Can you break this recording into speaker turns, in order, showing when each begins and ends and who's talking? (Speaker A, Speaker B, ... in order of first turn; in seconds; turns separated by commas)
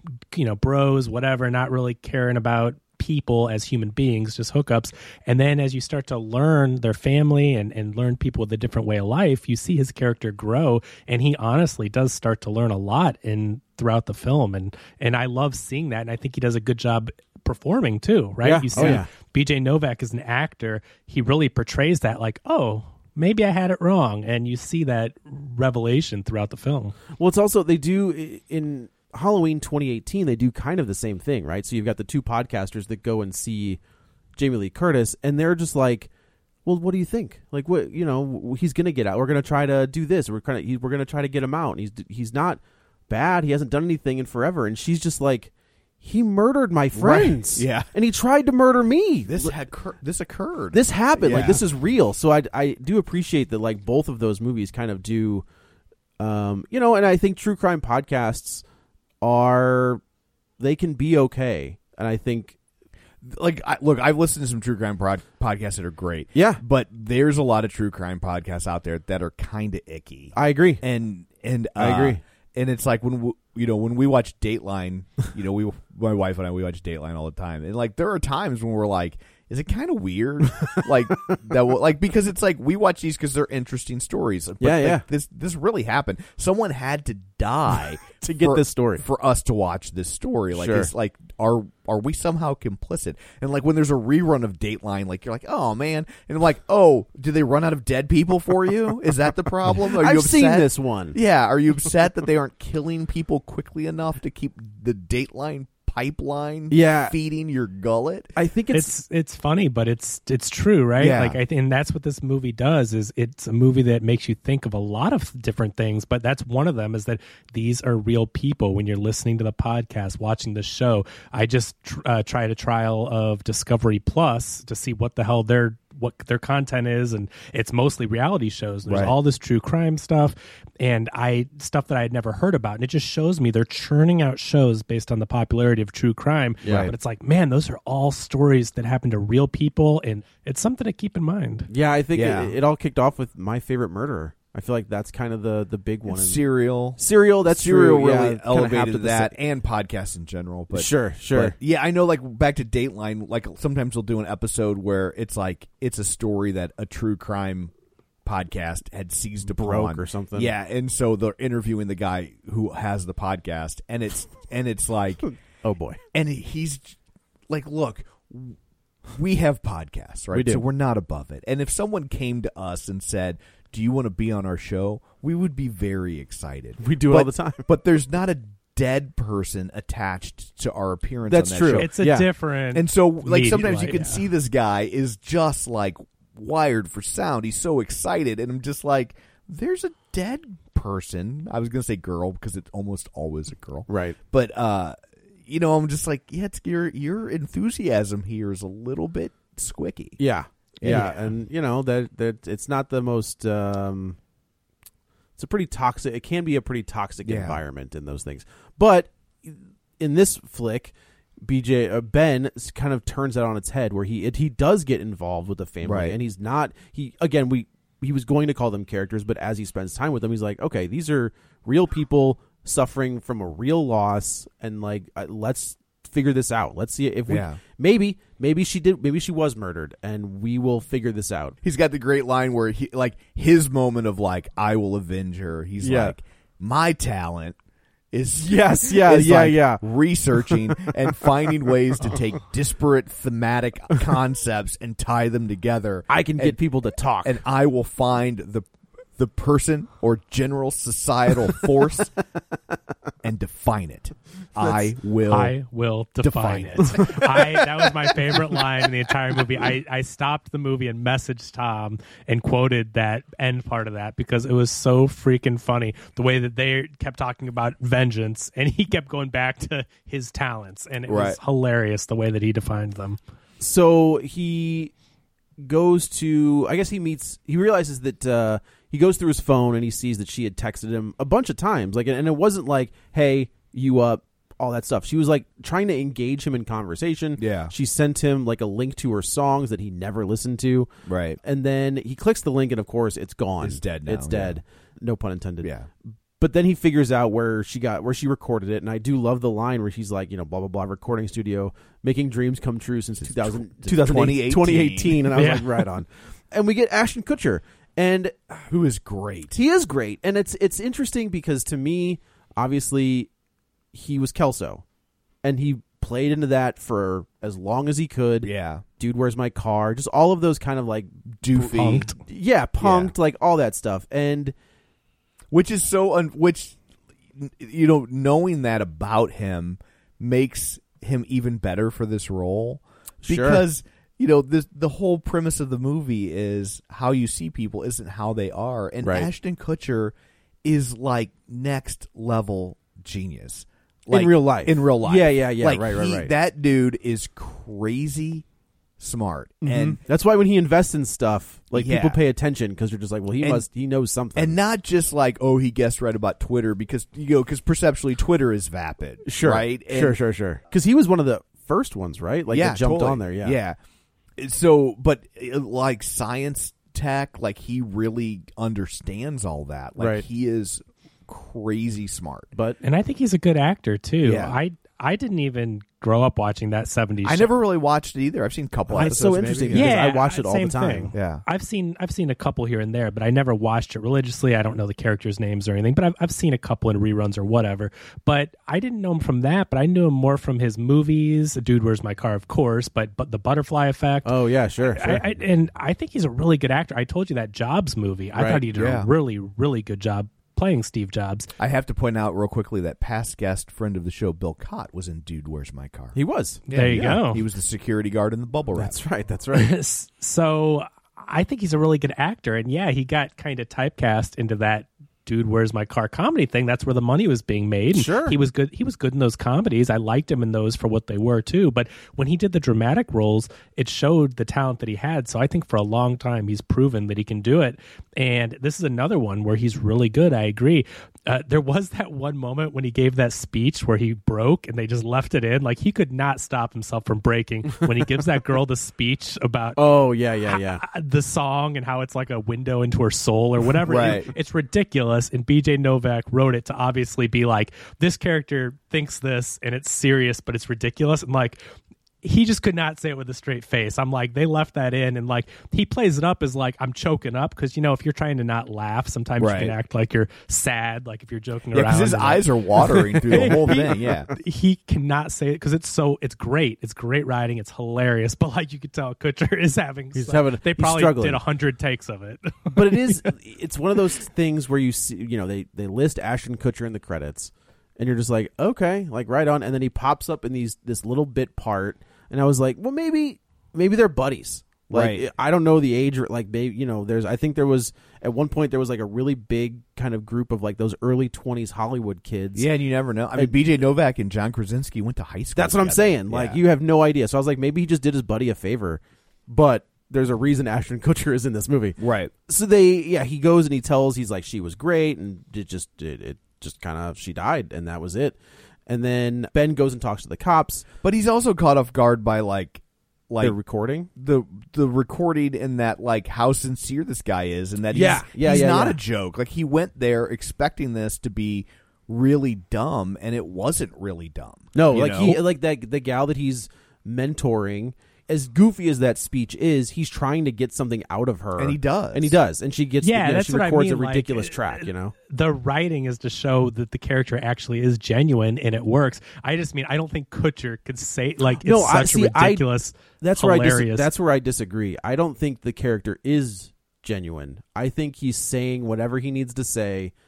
Speaker A: 0.3-27.0, Speaker B: 18.4-19.1, Speaker C: 18.8-19.0, Speaker B: 27.1-33.8, Speaker B: 34.4-36.1, Speaker B: 36.6-45.5, Speaker B: 46.0-49.5, Speaker C: 46.9-47.9, Speaker C: 49.3-51.6, Speaker B: 50.7-55.5, Speaker B: 56.2-58.6, Speaker B: 59.2-60.0, Speaker B: 60.6-62.6, Speaker C: 63.2-108.3, Speaker B: 66.3-66.6, Speaker B: 70.3-70.8, Speaker B: 71.8-72.2, Speaker B: 84.6-85.0, Speaker B: 88.2-89.0, Speaker B: 90.5-90.9, Speaker B: 99.8-101.2, Speaker B: 106.7-107.2, Speaker B: 108.4-108.9, Speaker A: 108.7-141.7, Speaker C: 111.0-111.4, Speaker C: 128.9-129.2, Speaker B: 136.6-136.9, Speaker C: 136.7-136.9, Speaker B: 141.7-146.4, Speaker C: 142.1-142.6, Speaker C: 146.1-157.7, Speaker B: 147.0-149.3, Speaker B: 150.7-151.6, Speaker C: 158.2-165.2, Speaker B: 159.5-160.5, Speaker B: 165.3-166.0, Speaker C: 166.1-167.0, Speaker C: 167.5-168.6, Speaker C: 169.1-181.9, Speaker B: 170.3-170.6, Speaker B: 176.8-177.7, Speaker B: 181.3-182.3, Speaker A: 181.8-184.2, Speaker C: 182.7-200.2, Speaker B: 193.9-194.2, Speaker B: 200.2-204.2, Speaker C: 200.8-201.3, Speaker B: 205.4-231.6, Speaker C: 207.2-207.6, Speaker C: 215.8-216.2, Speaker C: 227.3-227.6, Speaker C: 231.6-237.6, Speaker B: 235.8-236.2, Speaker C: 238.1-246.6, Speaker B: 238.4-239.8, Speaker B: 246.1-247.4, Speaker C: 247.2-252.1, Speaker C: 253.2-255.5, Speaker A: 255.3-273.2, Speaker C: 256.2-257.2, Speaker C: 271.1-271.4, Speaker B: 273.6-274.9, Speaker B: 275.6-290.9, Speaker C: 287.4-287.7, Speaker C: 291.1-291.4, Speaker B: 291.4-308.5, Speaker C: 293.6-294.6, Speaker C: 295.6-295.9, Speaker C: 303.2-305.3, Speaker A: 305.3-305.9, Speaker C: 308.7-309.6, Speaker B: 309.5-313.3, Speaker B: 313.9-314.8, Speaker B: 315.4-321.2, Speaker C: 318.4-318.8, Speaker C: 321.4-322.1, Speaker A: 321.6-322.2, Speaker B: 321.8-324.5, Speaker C: 322.8-323.1, Speaker C: 325.5-326.8, Speaker C: 327.4-348.4, Speaker B: 333.2-333.6, Speaker B: 339.0-339.3, Speaker B: 344.1-346.3, Speaker C: 349.0-350.0, Speaker B: 349.6-354.6, Speaker C: 351.7-352.2, Speaker C: 353.4-353.7, Speaker C: 354.4-360.2, Speaker B: 359.3-363.6, Speaker C: 362.5-363.8, Speaker C: 364.4-372.5, Speaker B: 370.0-370.2, Speaker A: 372.8-377.5, Speaker C: 374.2-374.6, Speaker C: 377.2-380.0, Speaker B: 378.9-381.1, Speaker A: 379.7-401.5, Speaker C: 381.1-381.4, Speaker B: 394.2-395.2, Speaker B: 398.4-398.6, Speaker C: 398.7-399.1, Speaker C: 401.6-406.2, Speaker B: 406.1-406.6, Speaker A: 406.7-407.4, Speaker C: 406.7-409.0, Speaker B: 408.8-409.7, Speaker A: 409.5-439.9, Speaker B: 417.9-418.4, Speaker B: 439.8-440.8, Speaker A: 440.4-451.6, Speaker C: 443.9-444.3, Speaker A: 452.2-473.2, Speaker C: 459.4-459.8, Speaker C: 461.7-464.3, Speaker B: 463.3-463.8, Speaker B: 470.1-471.4, Speaker B: 472.7-492.7, Speaker C: 484.9-485.3, Speaker C: 492.5-496.6, Speaker B: 495.6-510.9, Speaker C: 502.0-502.3, Speaker C: 511.0-513.6, Speaker B: 513.4-514.1, Speaker C: 514.1-525.4, Speaker B: 517.9-519.0, Speaker B: 524.7-535.1, Speaker C: 531.6-532.4, Speaker A: 533.0-544.1, Speaker B: 541.6-542.6, Speaker B: 543.2-550.1